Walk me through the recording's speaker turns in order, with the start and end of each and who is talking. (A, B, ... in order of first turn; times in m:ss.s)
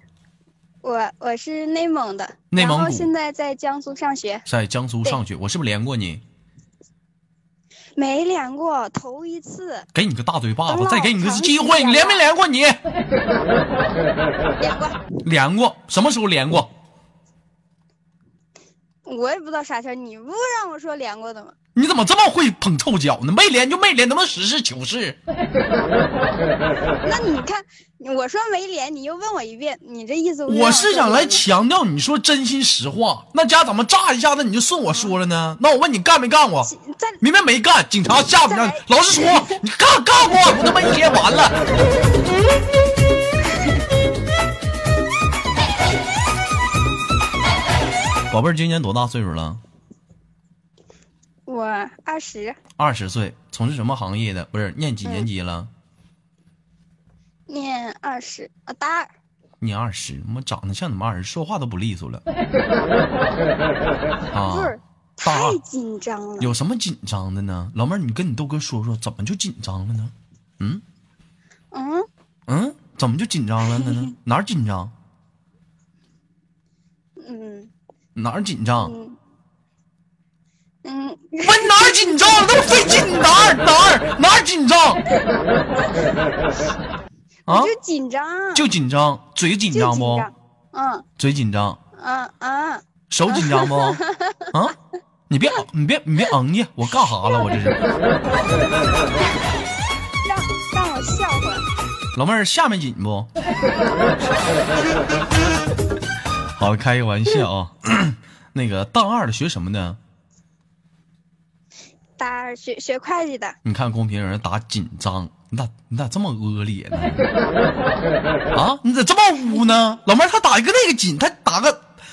0:00.8-0:04.4 A
0:02.5-0:03.1 B
0:04.5-0:06.2 B
0:08.0-0:09.8 A
0:09.9-0:12.8 B
0:10.7-0:12.2 A
0:14.6-0:15.0 A
0:15.2-0:16.7 B
0:19.0-0:21.5 A
0:21.7-0:25.2 B
0:27.0-0:31.4 A
0:30.5-0:41.6 B
0:36.6-0:37.2 A
0:38.4-0:39.6 A
0:48.3-0:49.6 B
0:51.5-0:52.6 A
0:52.8-0:55.7 B
0:57.5-0:59.1 A
0:59.6-1:02.2 B
1:04.3-1:05.6 B
1:04.4-1:06.6 A
1:06.4-1:10.8 B
1:11.7-1:12.1 A
1:12.5-1:14.9 B
1:17.2-1:17.7 A
1:18.1-1:18.9 B
1:18.8-1:19.2 A
1:20.8-1:22.4 A
1:21.4-1:25.0 B
1:27.5-1:27.7 B
1:27.5-1:28.7 A
1:28.5-1:30.3 B
1:29.7-1:31.0 A
1:31.2-1:31.8 B
1:31.9-1:34.5 A
1:33.1-1:34.7 B
1:35.3-1:37.8 B
1:40.2-1:41.6 A
1:42.1-1:43.3 B
1:46.6-1:50.0 B
1:52.2-1:53.6 A
1:53.6-1:57.2 B
1:58.5-2:01.8 B